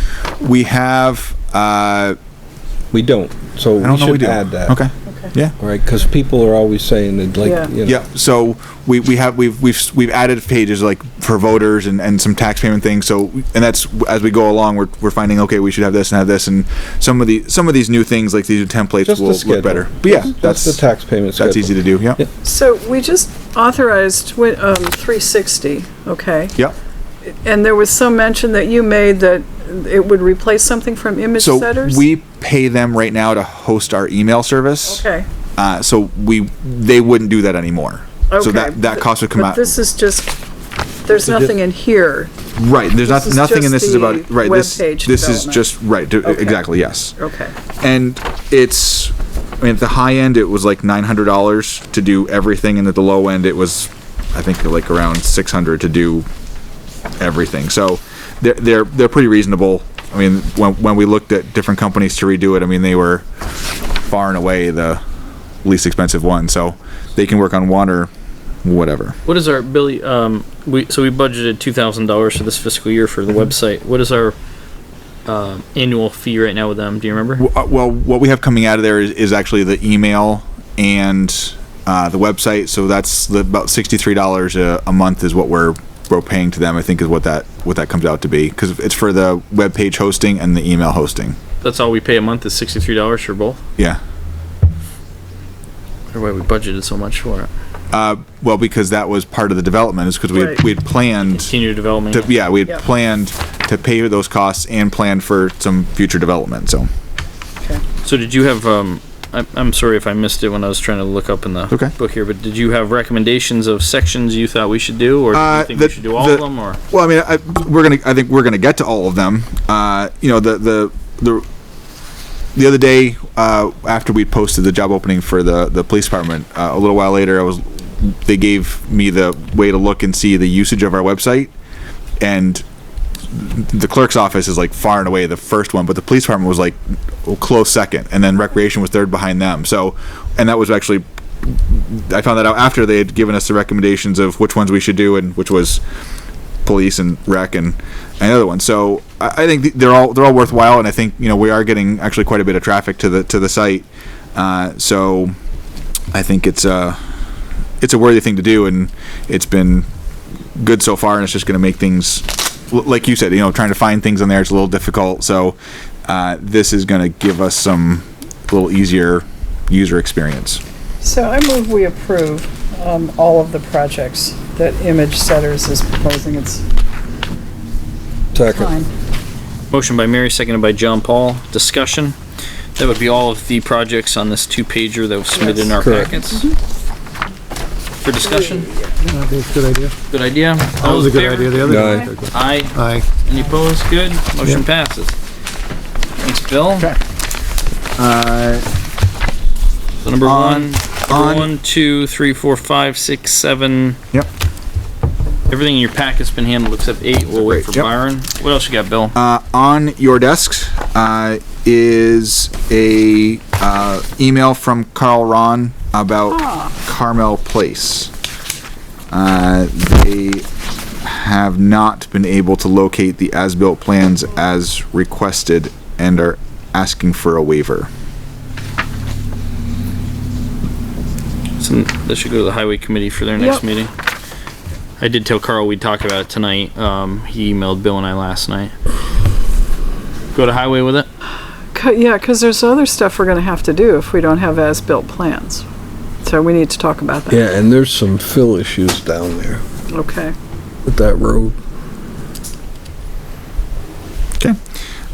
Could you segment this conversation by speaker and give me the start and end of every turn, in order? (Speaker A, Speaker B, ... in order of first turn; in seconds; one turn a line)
Speaker A: 0.4-2.1
Speaker B: 2.9-4.8
Speaker A: 3.8-5.5
Speaker C: 5.0-5.3
Speaker B: 5.6-8.0
Speaker C: 7.4-7.7
Speaker A: 7.8-20.8
Speaker B: 19.0-22.3
Speaker A: 21.4-22.2
Speaker C: 22.4-26.5
Speaker C: 27.2-32.0
Speaker A: 31.4-35.0
Speaker C: 34.9-35.2
Speaker A: 35.6-39.7
Speaker C: 38.3-40.3
Speaker C: 41.0-42.3
Speaker A: 42.5-47.2
Speaker C: 43.0-45.6
Speaker C: 46.2-46.6
Speaker C: 47.2-47.5
Speaker A: 47.8-56.2
Speaker A: 57.2-63.2
Speaker A: 64.0-65.0
Speaker A: 65.6-68.1
Speaker A: 68.6-69.2
Speaker D: 69.2-74.3
Speaker D: 75.2-77.4
Speaker A: 77.4-91.4
Speaker D: 91.6-93.6
Speaker D: 96.1-97.5
Speaker A: 97.9-101.5
Speaker C: 100.3-100.6
Speaker D: 101.2-102.3
Speaker A: 102.1-106.9
Speaker D: 108.0-116.8
Speaker A: 115.3-121.4
Speaker A: 122.5-131.5
Speaker A: 132.2-132.6
Speaker A: 133.3-145.8
Speaker A: 146.7-155.3
Speaker A: 156.1-157.0
Speaker A: 157.8-159.9
Speaker A: 160.6-170.6
Speaker C: 171.0-176.7
Speaker B: 178.3-178.7
Speaker C: 178.4-178.9
Speaker D: 179.7-182.2
Speaker D: 182.8-186.5
Speaker C: 185.3-186.4
Speaker B: 185.8-186.2
Speaker D: 188.0-188.7
Speaker C: 188.2-189.0
Speaker E: 189.0-189.9
Speaker D: 190.1-195.1
Speaker E: 190.8-193.1
Speaker C: 191.6-192.1
Speaker B: 191.7-192.1
Speaker D: 196.2-196.9
Speaker A: 198.0-198.7
Speaker D: 200.0-204.0
Speaker A: 200.2-201.5
Speaker D: 205.5-209.2
Speaker A: 207.3-207.9
Speaker A: 209.2-218.1
Speaker C: 216.3-216.7
Speaker A: 219.1-220.5
Speaker A: 221.0-227.9
Speaker D: 231.6-233.9
Speaker C: 233.4-233.6
Speaker D: 235.0-238.7
Speaker D: 240.3-241.1
Speaker C: 241.7-245.6
Speaker C: 246.2-247.4
Speaker B: 247.3-249.6
Speaker C: 249.9-250.3
Speaker B: 250.8-251.6